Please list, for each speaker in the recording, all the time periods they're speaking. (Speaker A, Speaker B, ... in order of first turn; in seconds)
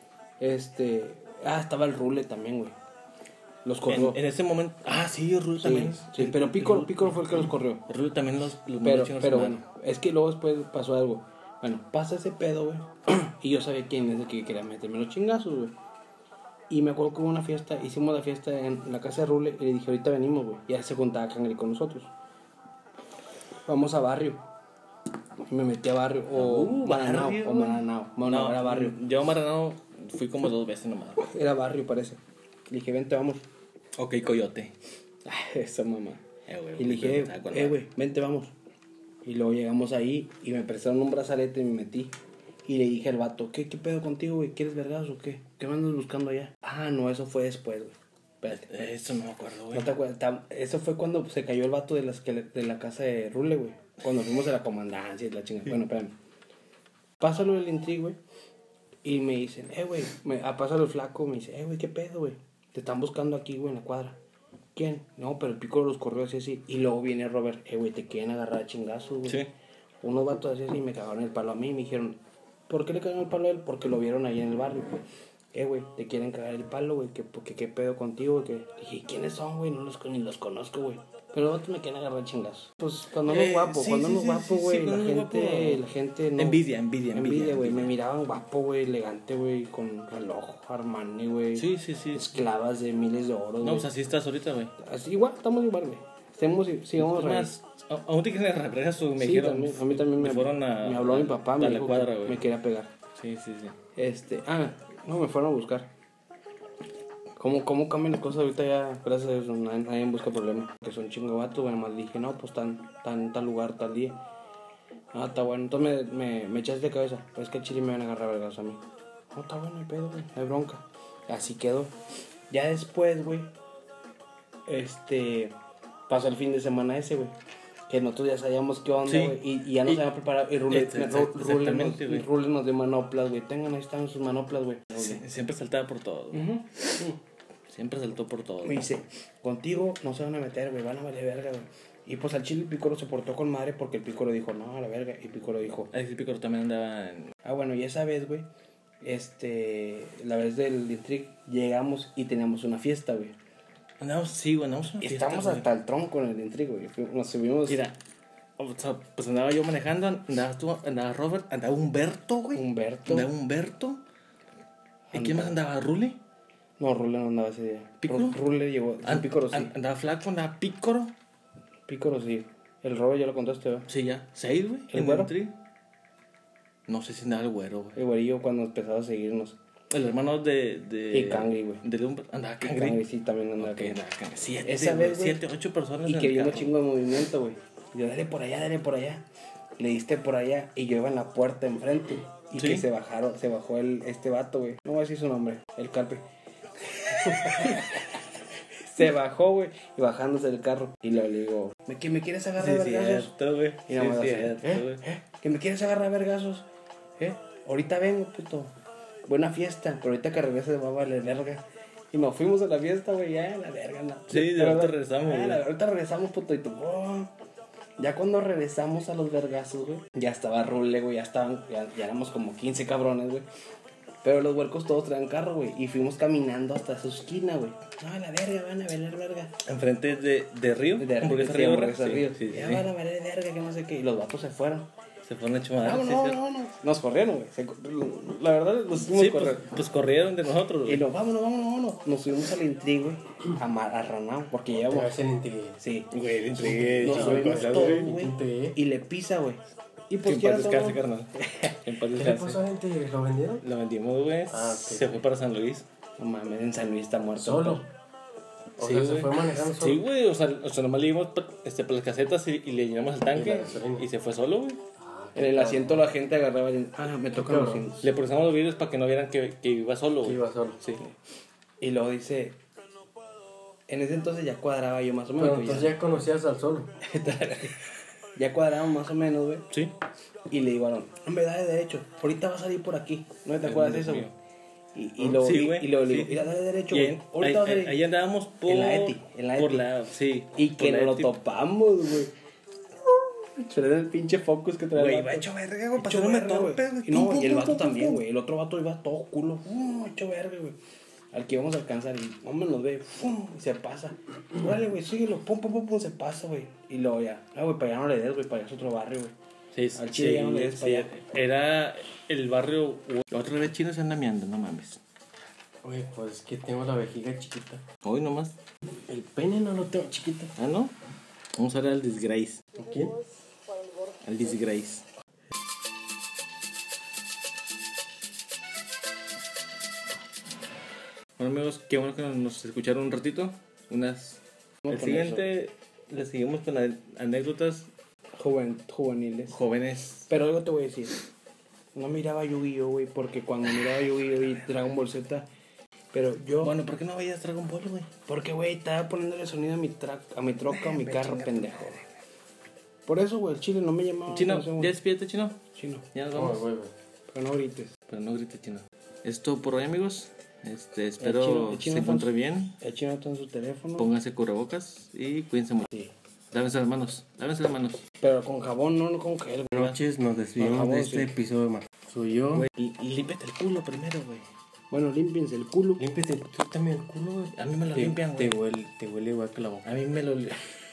Speaker A: 0.4-2.8, 3.6-4.2, 5.6-7.8, 8.8-15.7, 16.7-22.1, 23.7-24.4, 25.5-29.0, 31.2-33.4, 35.2-36.2, 36.8-38.5, 39.2-42.1, 42.7-48.9, 49.7-56.1, 57.2-58.2, 59.0-64.2, 64.8-69.4, 70.0-75.0, 75.5-93.9, 94.8-97.5, 99.2-102.9, 104.0-105.9, 107.4-114.2, 115.1-118.8, 119.3-121.9, 122.5-123.5, 124.7-125.5, 126.1-127.3, 127.9-135.2, 136.3-137.2, 138.6-145.9, 147.4-148.5, 149.0-153.3, 155.0-157.8, 162.5-163.3, 165.1-165.6, 166.8-169.7, 171.9-173.9, 174.9-175.3, 177.9-179.6, 181.1-181.8, 182.6-184.0, 184.7-185.4, 186.0-189.2, 189.8-196.2, 197.1-198.1, 198.9-203.3, 203.9-206.7, 207.2-208.7, 209.3-217.3, 218.0-223.5, 224.2-229.6, 231.0-234.9, 235.8-239.7, 240.8-245.2, 245.8-246.1, 247.0-251.0, 256.2-257.9, 265.4-268.1, 271.8-272.6, 273.9-276.0, 277.0-277.8, 278.4-279.7, 280.5-284.3, 284.9-288.0, 288.7-289.9, 290.6-292.3, 293.1-300.8, 301.3-309.3, 309.9-311.1, 334.9-335.5, 338.4-339.6, 340.3-341.2, 341.9-345.5, 346.1-346.8, 348.3-352.0, 353.1-354.9, 355.8-356.1, 357.3-357.9, 361.2-364.1, 368.2-369.9, 370.6-371.4, 374.9-376.0
Speaker B: 3.9-9.6, 26.3-31.3, 34.0-34.7, 36.5-37.8, 48.5-49.9, 83.3-85.8, 86.4-87.9, 91.6-92.5, 93.6-94.7, 97.0-102.4, 103.2-103.8, 129.1-130.0, 130.7-132.3, 134.9-136.5, 137.7-138.9, 145.9-147.3, 154.0-155.7, 157.7-158.0, 158.6-164.0, 165.1-166.2, 168.0-168.4, 169.1-171.1, 173.9-175.5, 176.9-178.0, 179.9-183.0, 183.6-186.7, 192.6-192.8, 202.6-205.0, 214.3-215.6, 229.6-232.9, 235.3-236.4, 239.0-241.1, 246.1-248.1, 250.2-252.6, 253.6-255.8, 258.8-264.8, 268.0-271.0, 283.6-284.3, 285.2-291.4, 294.9-298.2, 309.7-315.0, 318.0-318.6, 320.6-320.9, 321.6-322.8, 324.2-325.0, 331.4-337.9, 339.5-340.3, 346.6-348.1, 350.7-352.1, 354.3-355.6, 356.1-356.6, 358.1-362.8, 364.0-365.9, 366.5-368.0, 372.5-374.5, 377.6-378.6, 379.9-380.6
Speaker C: 244.7-245.8, 246.6-248.8, 252.1-253.7, 254.5-255.2, 257.4-257.9, 258.8-260.0, 263.3-264.1, 265.0-266.1, 267.3-267.9, 270.2-270.8, 275.4-276.9, 315.8-317.9, 319.1-320.5, 322.8-323.4, 356.3-356.9, 369.7-372.7, 376.0-380.0